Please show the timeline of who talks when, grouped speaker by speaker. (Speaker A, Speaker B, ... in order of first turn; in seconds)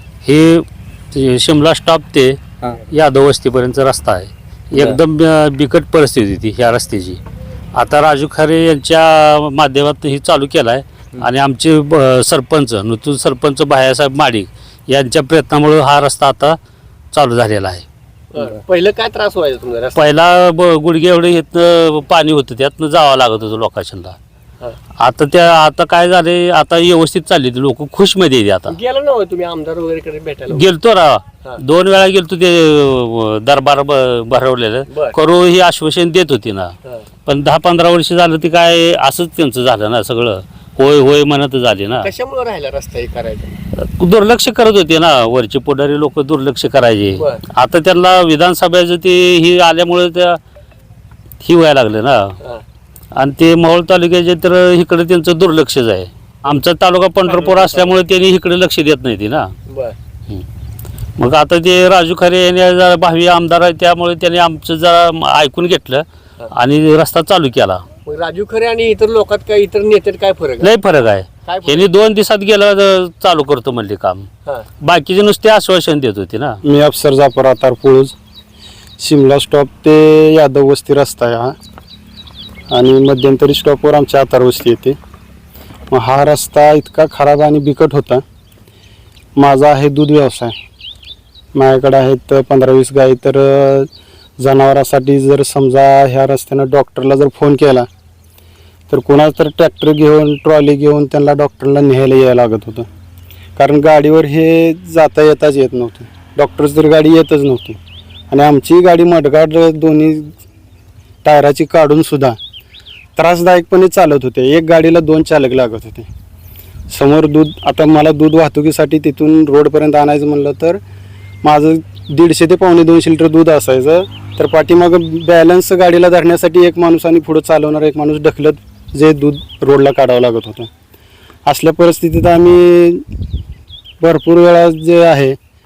Speaker A: 0.2-7.2, 7.7-16.6, 17.1-17.9, 19.9-24.2, 25.0-28.7, 30.5-36.7, 37.3-42.1, 43.8-50.4, 51.4-52.3, 53.1-59.5, 61.2-67.8, 70.6-74.3, 74.8-76.6
Speaker B: 18.3-20.1, 28.7-30.6, 34.9-35.2, 42.0-43.6, 57.3-57.9, 59.7-60.0, 68.1-70.7, 71.5-71.9
Speaker C: 76.6-78.1, 79.0-81.5, 82.7-85.0, 85.9-88.2, 89.4-90.5, 91.5-97.9, 98.9-102.9, 103.6-107.8, 108.3-110.3, 111.2-112.4, 113.2-116.1, 116.9-120.8, 121.4-130.7, 131.5-133.0, 134.0-135.4